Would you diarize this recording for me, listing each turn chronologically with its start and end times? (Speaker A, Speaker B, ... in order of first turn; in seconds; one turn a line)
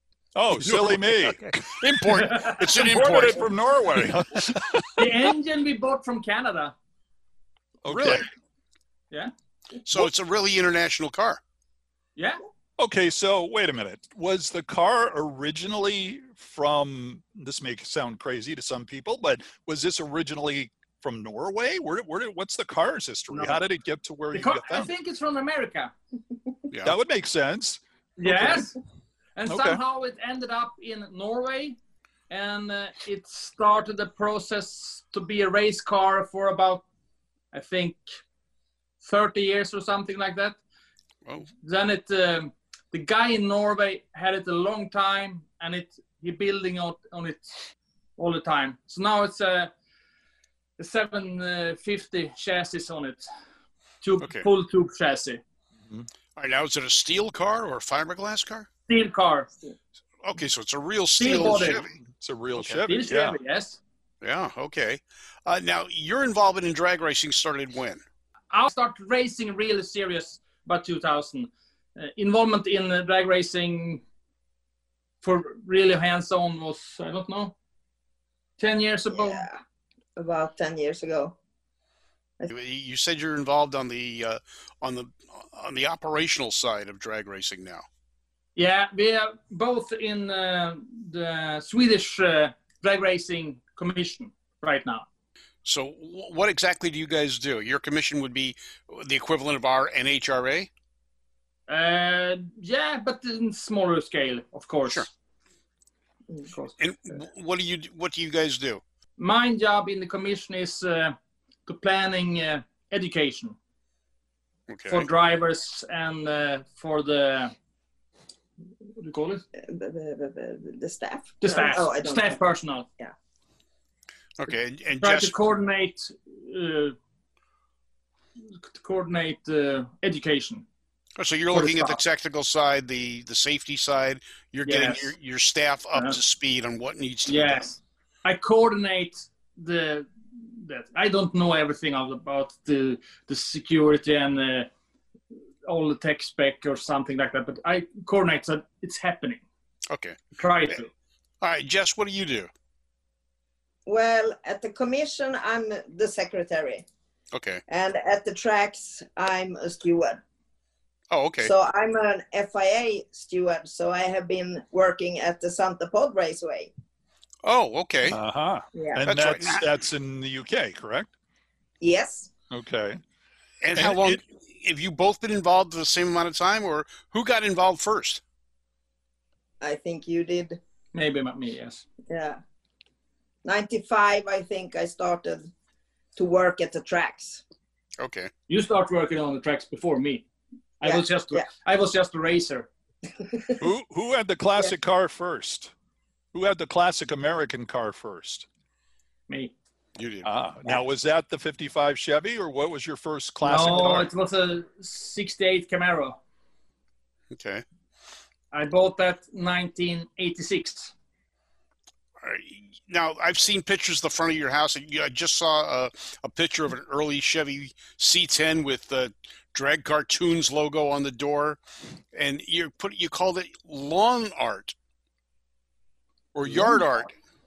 Speaker A: 0.3-5.3
Speaker B: 0.6-3.5
Speaker C: 2.2-2.6
Speaker C: 5.0-6.7
Speaker A: 7.8-8.3
Speaker B: 7.9-8.2
Speaker B: 9.8-11.4
Speaker A: 12.8-24.9
Speaker C: 23.3-23.6
Speaker C: 24.3-25.9
Speaker B: 26.7-26.9
Speaker A: 26.8-28.7
Speaker C: 28.2-28.8
Speaker C: 29.4-31.8
Speaker A: 29.4-29.8
Speaker C: 32.3-36.8
Speaker C: 37.5-38.0
Speaker C: 39.0-40.6
Speaker C: 41.6-47.5
Speaker C: 48.2-49.7
Speaker C: 50.8-53.3
Speaker C: 54.0-55.4
Speaker B: 54.2-54.5
Speaker B: 56.4-58.7
Speaker C: 58.9-59.5
Speaker B: 60.2-61.9
Speaker C: 61.2-61.8
Speaker A: 61.3-63.4
Speaker B: 62.5-62.8
Speaker C: 62.8-63.8
Speaker B: 64.2-68.0
Speaker C: 68.5-74.0
Speaker C: 75.2-77.5
Speaker C: 78.6-79.4
Speaker D: 79.1-79.6
Speaker D: 80.2-81.3
Speaker B: 82.5-87.8
Speaker C: 88.5-95.0
Speaker B: 95.6-100.7
Speaker C: 101.7-105.1
Speaker B: 106.8-108.8
Speaker C: 109.2-113.5
Speaker B: 114.7-115.1
Speaker C: 114.9-117.5
Speaker C: 119.0-119.4
Speaker D: 119.6-122.4
Speaker C: 121.4-122.9
Speaker B: 124.4-125.3
Speaker C: 125.0-127.0
Speaker C: 128.7-130.6
Speaker B: 131.2-137.7
Speaker C: 131.5-132.0
Speaker C: 134.7-135.1
Speaker C: 137.3-144.7
Speaker C: 145.7-149.4
Speaker B: 149.9-150.2
Speaker C: 150.3-150.9
Speaker B: 151.4-152.5
Speaker D: 153.8-156.8
Speaker B: 157.3-157.6
Speaker D: 157.7-160.2
Speaker B: 161.1-161.5
Speaker D: 161.4-166.7
Speaker B: 167.4-168.2
Speaker A: 168.1-171.1
Speaker D: 168.7-169.0
Speaker B: 169.1-169.7
Speaker D: 171.8-172.3
Speaker A: 172.5-173.0
Speaker B: 173.6-178.2
Speaker A: 173.8-174.2
Speaker D: 179.6-180.6
Speaker C: 180.9-181.8
Speaker D: 182.1-182.4
Speaker D: 183.4-185.5
Speaker D: 186.2-187.4
Speaker B: 188.0-188.3
Speaker C: 188.5-190.2
Speaker C: 190.8-192.7
Speaker D: 190.8-191.4
Speaker A: 193.6-195.7
Speaker A: 196.3-198.4
Speaker B: 200.0-200.8
Speaker A: 200.2-204.1
Speaker C: 203.4-206.2
Speaker B: 207.3-207.6
Speaker C: 208.5-210.9
Speaker B: 212.2-221.6
Speaker B: 222.1-224.7
Speaker B: 226.3-227.1
Speaker A: 226.5-226.7